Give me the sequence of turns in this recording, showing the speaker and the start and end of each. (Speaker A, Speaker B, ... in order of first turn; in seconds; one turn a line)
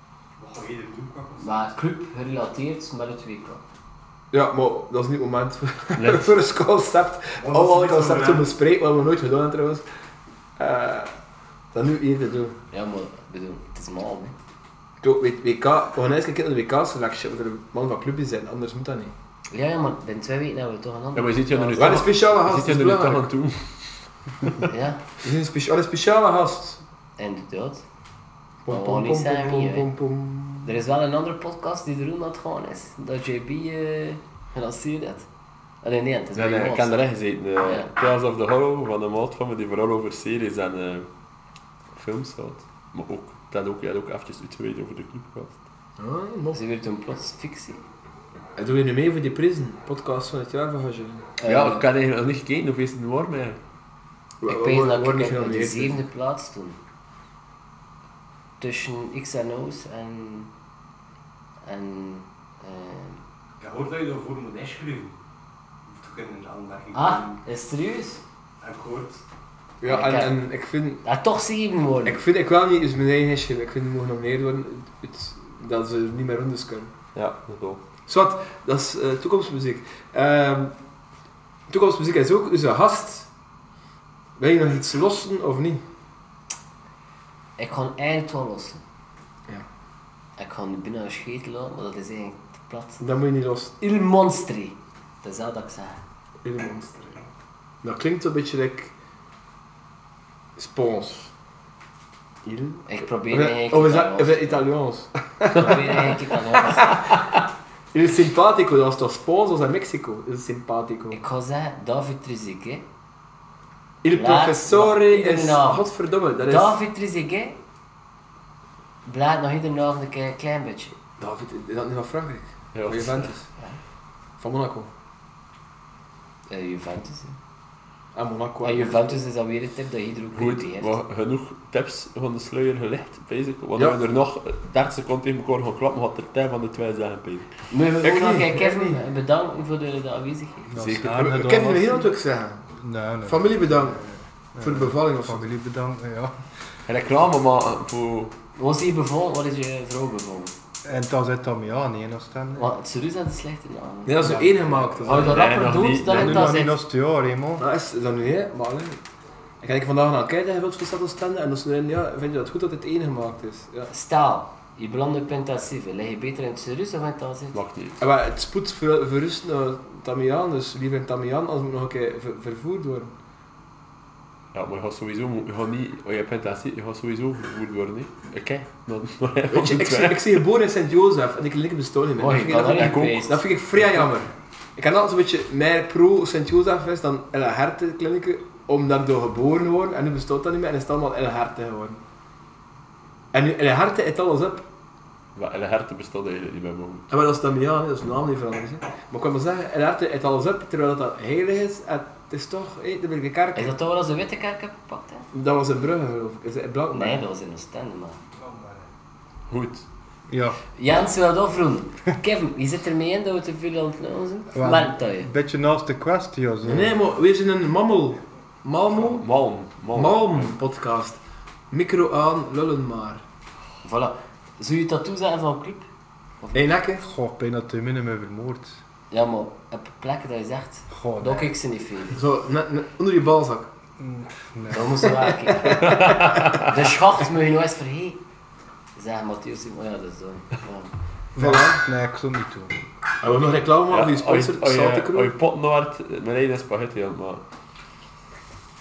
Speaker A: 0.4-1.7
Speaker B: 1.4-3.6
Speaker C: 4.3-9.8
Speaker D: 6.0-6.3
Speaker A: 7.4-8.5
Speaker C: 10.6-11.1
Speaker C: 11.7-12.6
Speaker B: 12.7-14.3
Speaker C: 15.0-19.1
Speaker B: 19.5-22.1
Speaker D: 21.1-24.6
Speaker C: 21.8-23.3
Speaker B: 24.7-25.0
Speaker C: 25.2-26.8
Speaker B: 27.2-27.8
Speaker C: 28.6-30.7
Speaker B: 28.7-29.9
Speaker B: 30.6-35.3
Speaker B: 35.8-37.1
Speaker D: 36.4-41.1
Speaker B: 37.6-37.9
Speaker D: 41.9-45.6
Speaker C: 46.0-46.6
Speaker B: 46.5-47.8
Speaker C: 48.6-51.3
Speaker B: 51.4-51.9
Speaker D: 51.4-53.6
Speaker C: 54.4-56.0
Speaker B: 54.5-56.8
Speaker B: 58.6-60.5
Speaker B: 61.7-63.2
Speaker A: 63.6-65.1
Speaker A: 65.9-67.4
Speaker B: 66.9-68.2
Speaker A: 68.6-69.2
Speaker C: 69.8-71.0
Speaker B: 69.9-70.4
Speaker B: 71.0-72.2
Speaker C: 72.0-76.9
Speaker D: 77.2-77.8
Speaker C: 78.1-80.8
Speaker C: 81.7-83.3
Speaker C: 84.4-85.8
Speaker B: 87.6-88.8
Speaker B: 90.4-93.0
Speaker C: 93.0-93.8
Speaker B: 93.8-96.0
Speaker C: 96.5-97.3
Speaker C: 97.8-98.9
Speaker C: 100.6-101.3
Speaker C: 102.4-107.2
Speaker B: 102.9-104.6
Speaker B: 105.5-107.0
Speaker C: 107.9-111.2
Speaker B: 111.1-112.8
Speaker C: 114.0-116.8
Speaker B: 114.1-115.9
Speaker B: 116.4-117.6
Speaker B: 119.1-121.0
Speaker C: 121.2-123.5
Speaker D: 122.7-123.3
Speaker C: 124.4-124.9
Speaker B: 126.5-127.4
Speaker C: 128.1-129.2
Speaker B: 128.6-131.0
Speaker D: 130.3-137.5
Speaker B: 137.7-140.8
Speaker C: 138.0-139.0
Speaker E: 140.7-142.1
Speaker D: 140.8-141.1
Speaker C: 140.9-142.7
Speaker E: 142.8-146.4
Speaker C: 143.2-144.1
Speaker C: 144.6-145.5
Speaker D: 146.9-148.3
Speaker B: 148.6-150.5
Speaker E: 150.8-152.7
Speaker B: 152.6-154.4
Speaker C: 154.1-155.6
Speaker E: 154.2-155.2
Speaker B: 155.0-156.8
Speaker D: 155.2-156.5
Speaker E: 156.1-157.7
Speaker C: 157.6-159.0
Speaker C: 159.6-163.9
Speaker B: 163.9-167.6
Speaker D: 167.5-168.0
Speaker C: 168.0-173.1
Speaker D: 174.5-180.3
Speaker C: 179.5-192.0
Speaker B: 182.2-183.4
Speaker D: 182.7-183.3
Speaker C: 193.3-194.6
Speaker D: 195.4-197.1
Speaker C: 197.1-203.7
Speaker B: 203.6-205.3
Speaker C: 205.3-207.2
Speaker B: 206.9-208.2
Speaker A: 208.3-208.9
Speaker D: 209.5-209.8
Speaker E: 210.3-210.6
Speaker B: 210.8-215.3
Speaker E: 214.5-217.0
Speaker C: 216.6-219.3
Speaker D: 218.9-220.5
Speaker C: 219.9-221.2
Speaker C: 221.7-223.2
Speaker B: 223.8-225.9
Speaker B: 226.4-226.7
Speaker C: 226.5-227.0
Speaker E: 227.0-228.8
Speaker B: 229.1-232.2
Speaker E: 230.9-231.5
Speaker C: 232.1-233.7
Speaker E: 234.0-235.2
Speaker B: 234.7-238.2
Speaker C: 235.4-236.0
Speaker D: 235.8-236.7
Speaker B: 239.0-240.9
Speaker E: 241.4-242.8
Speaker C: 241.4-241.9
Speaker C: 243.2-245.3
Speaker D: 243.9-247.4